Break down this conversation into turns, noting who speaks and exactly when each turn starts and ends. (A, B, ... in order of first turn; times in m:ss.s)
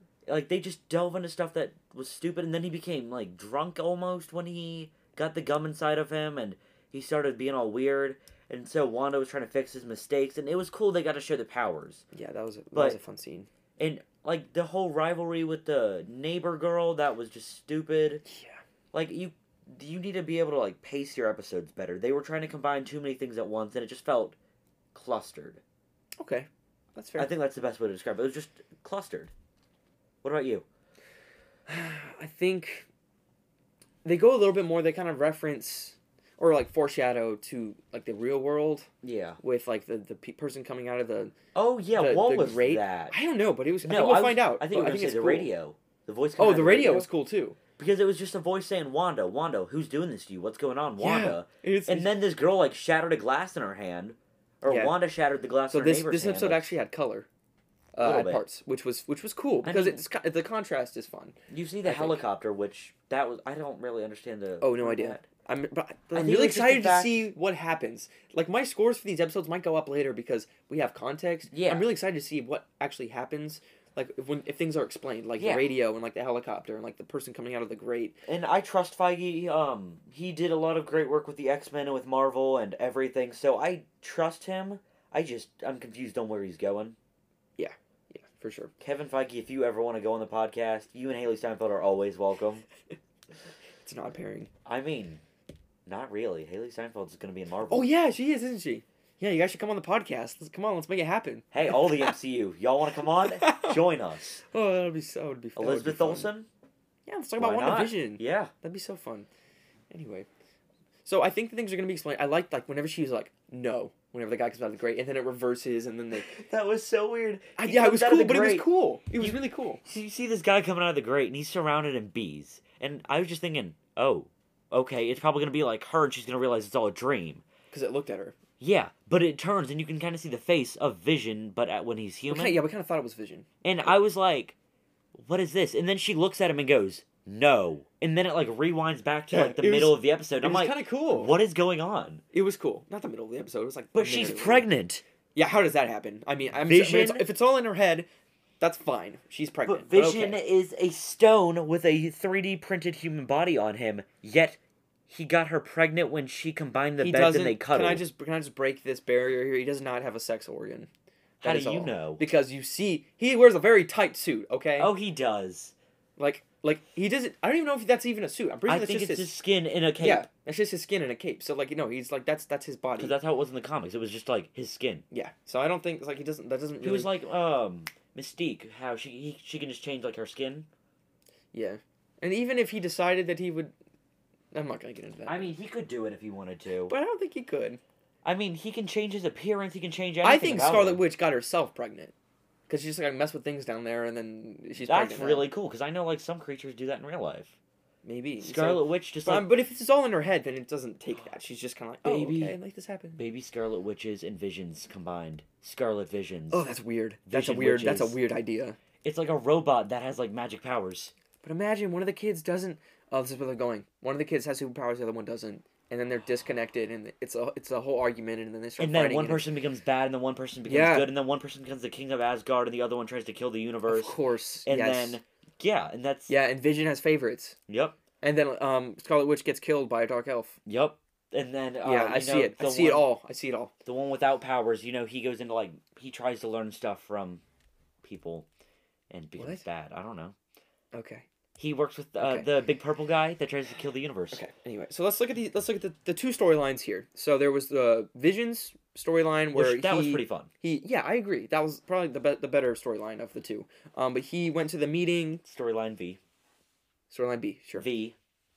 0:00.3-0:12.0 A
0:12.1-0:13.5 B
0:12.7-0:13.0 A
0:13.8-0:18.2 A
0:18.3-0:18.6 B
0:18.9-0:24.4 A
0:24.9-0:25.6 A
0:26.2-0:27.3 B
0:27.2-0:29.3 A
0:30.2-0:30.7 A
0:31.7-0:32.9 B
0:34.0-0:38.9 B
0:39.0-0:39.4 A
0:39.4-0:41.4 B
0:41.6-0:43.2 A
0:42.0-0:45.5 B
0:43.8-0:47.1 A
0:46.4-0:47.6 B
0:47.8-0:56.7 A
0:51.0-0:52.1 B
0:54.7-0:55.0 B
0:55.7-0:57.3 B
0:57.9-1:02.2 B
0:58.0-0:58.4 A
0:59.6-1:00.0 A
1:01.5-1:05.3 A
1:04.6-1:18.2 B
1:06.1-1:07.3 A
1:11.5-1:11.9 A
1:15.4-1:15.7 A
1:18.2-1:27.0 A
1:27.6-1:28.7 B
1:28.8-1:32.6 A
1:33.8-1:34.5 B
1:34.6-1:35.2 A
1:35.9-1:37.9 A
1:37.7-1:42.1 B
1:41.5-1:44.4 A
1:43.2-1:43.8 B
1:44.5-1:46.3 B
1:45.6-1:46.5 A
1:47.1-1:49.3 B
1:47.4-1:48.5 A
1:49.9-1:50.3 B
1:51.0-1:56.4 B
1:56.1-1:58.7 A
1:57.6-1:59.8 B
1:59.2-2:07.4 A
2:07.7-2:08.4 B
2:08.6-2:12.6 A
2:12.3-2:13.5 B
2:13.6-2:14.6 A
2:15.1-2:22.2 A
2:19.3-2:21.4 B
2:22.3-2:24.7 B
2:24.0-2:25.0 A
2:25.4-2:28.1 B
2:26.6-2:27.3 A
2:28.6-2:30.4 B
2:29.6-2:38.0 A
2:37.0-2:40.9 B
2:41.4-2:42.3 A
2:41.4-2:44.9 B
2:44.8-2:45.7 A
2:46.2-2:49.3 B
2:48.7-2:50.3 A
2:50.0-2:53.2 B
2:53.0-2:55.0 A
2:55.1-2:57.1 B
2:56.8-3:00.7 A
3:01.5-3:03.7 B
3:04.5-3:05.5 B
3:05.3-3:06.9 A
3:06.9-3:07.8 B
3:08.2-3:11.0 A
3:10.2-3:12.1 B
3:12.7-3:15.5 B
3:14.8-3:17.6 A
3:18.0-3:23.2 B
3:18.4-3:19.5 A
3:22.0-3:22.6 A
3:23.2-3:26.7 A
3:26.5-3:28.8 B
3:27.3-3:28.2 A
3:29.0-3:31.1 A
3:31.4-3:39.5 B
3:38.8-3:46.3 A
3:40.6-3:41.1 B
3:43.9-3:45.2 B
3:46.3-3:47.6 B
3:47.7-3:48.0 A
3:48.2-3:50.6 B
3:50.7-3:53.1 A
3:51.8-3:53.7 B
3:53.8-3:57.4 A
3:58.0-3:58.5 A
3:59.1-4:00.4 A
3:59.4-3:59.6 B
4:00.9-4:01.3 B
4:01.6-4:04.4 A
4:02.2-4:02.5 B
4:04.3-4:15.4 B
4:09.5-4:10.5 A
4:15.4-4:16.2 A
4:17.1-4:17.9 B
4:17.8-4:18.2 A